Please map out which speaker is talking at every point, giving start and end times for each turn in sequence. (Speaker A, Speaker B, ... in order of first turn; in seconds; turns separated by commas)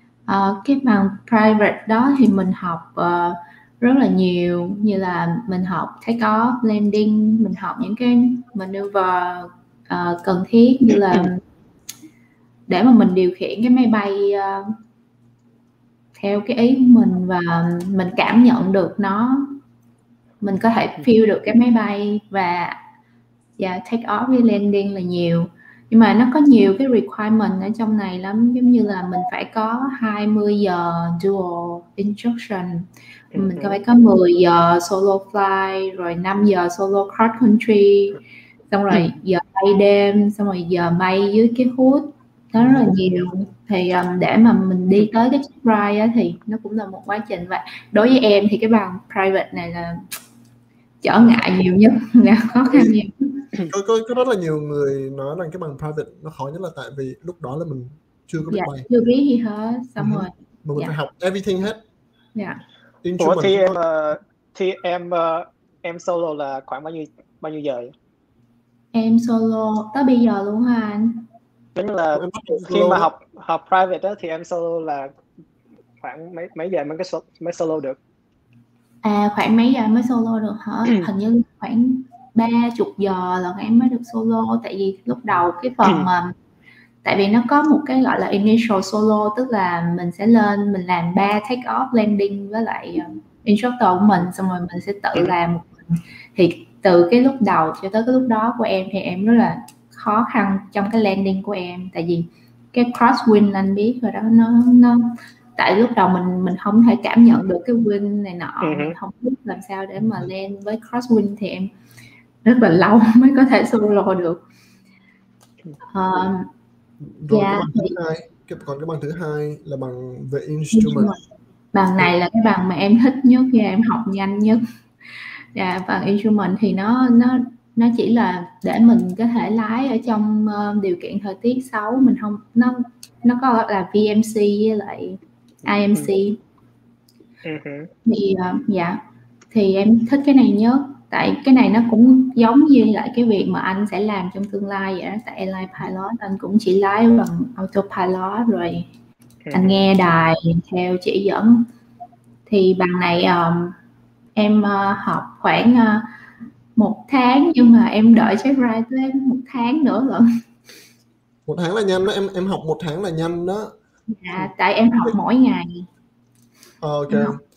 Speaker A: 0.3-11.4, Speaker A: 12.7-14.7, Speaker A: 16.1-19.6, Speaker A: 20.4-22.8, Speaker A: 23.6-38.2, Speaker B: 33.3-33.8, Speaker A: 38.7-50.0, Speaker C: 42.6-43.0, Speaker A: 51.0-53.5, Speaker C: 52.7-53.0, Speaker C: 53.7-58.9, Speaker A: 58.5-60.9, Speaker C: 60.0-61.8, Speaker A: 62.3-62.6, Speaker C: 63.0-63.8, Speaker B: 63.2-67.9, Speaker A: 68.9-71.3, Speaker B: 71.7-75.1, Speaker C: 72.1-73.1, Speaker B: 76.0-78.0, Speaker A: 79.0-86.3, Speaker A: 87.0-111.7, Speaker B: 108.6-109.0, Speaker C: 110.0-110.3, Speaker A: 112.4-114.4, Speaker A: 115.9-116.5, Speaker C: 117.0-121.1, Speaker A: 117.3-117.9, Speaker A: 120.7-121.2, Speaker A: 121.7-136.4, Speaker B: 137.4-137.9, Speaker A: 138.0-148.9, Speaker B: 149.4-149.8, Speaker A: 149.5-151.7, Speaker A: 152.5-153.8, Speaker A: 154.3-156.1, Speaker A: 156.8-160.3, Speaker C: 161.4-163.7, Speaker A: 164.1-165.9, Speaker C: 166.8-167.4, Speaker A: 167.1-167.4